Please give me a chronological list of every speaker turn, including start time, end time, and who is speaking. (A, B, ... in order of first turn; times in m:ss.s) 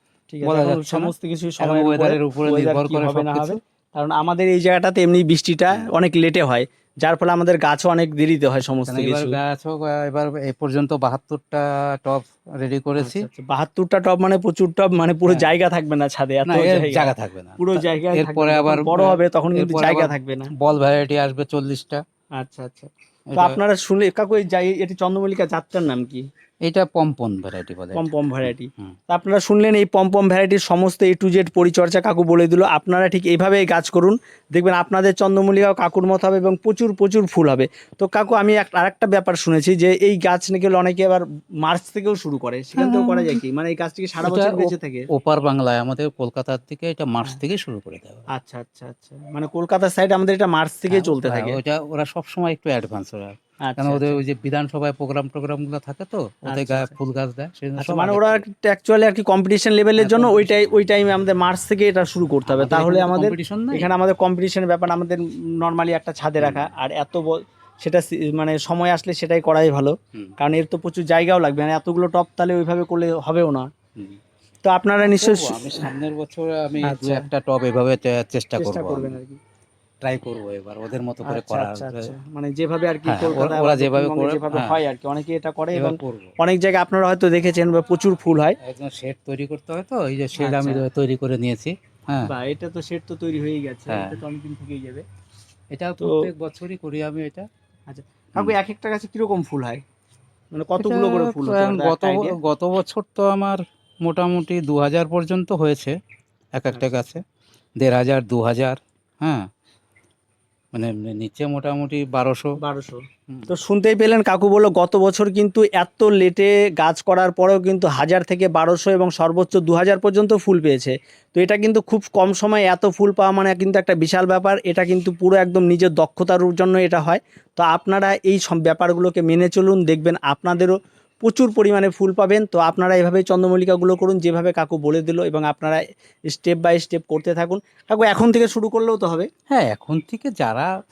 0:00.3-0:09.4 A
0:00.4-0:03.6 B
0:08.9-0:13.3 B
0:13.0-0:20.5 A
0:16.5-0:22.0 B
0:22.4-0:26.2 A
0:23.3-0:23.6 B
0:26.6-0:28.9 B
0:27.9-0:45.1 A
0:42.8-0:43.4 B
0:44.2-0:48.2 B
0:48.3-0:51.6 A
0:50.9-0:58.4 B
0:53.6-0:54.2 A
0:56.5-0:56.9 A
0:57.8-1:13.7 A
1:00.0-1:00.7 B
1:02.5-1:03.9 B
1:06.4-1:06.7 B
1:14.6-1:15.9 A
1:15.0-1:19.1 B
1:16.8-1:17.3 A
1:18.6-1:19.4 A
1:20.0-1:22.1 B
1:21.2-1:28.6 A
1:23.0-1:24.8 B
1:25.7-1:26.3 B
1:28.6-1:32.3 B
1:30.4-1:30.8 A
1:32.2-1:35.0 A
1:33.9-1:34.2 B
1:35.7-1:37.5 B
1:36.0-1:36.3 A
1:37.9-1:39.8 A
1:40.5-1:42.4 A
1:40.8-1:46.0 B
1:46.5-1:47.2 B
1:46.7-1:47.0 A
1:47.8-1:49.5 B
1:50.7-1:52.5 B
1:52.6-2:19.3 A
2:19.5-2:20.7 B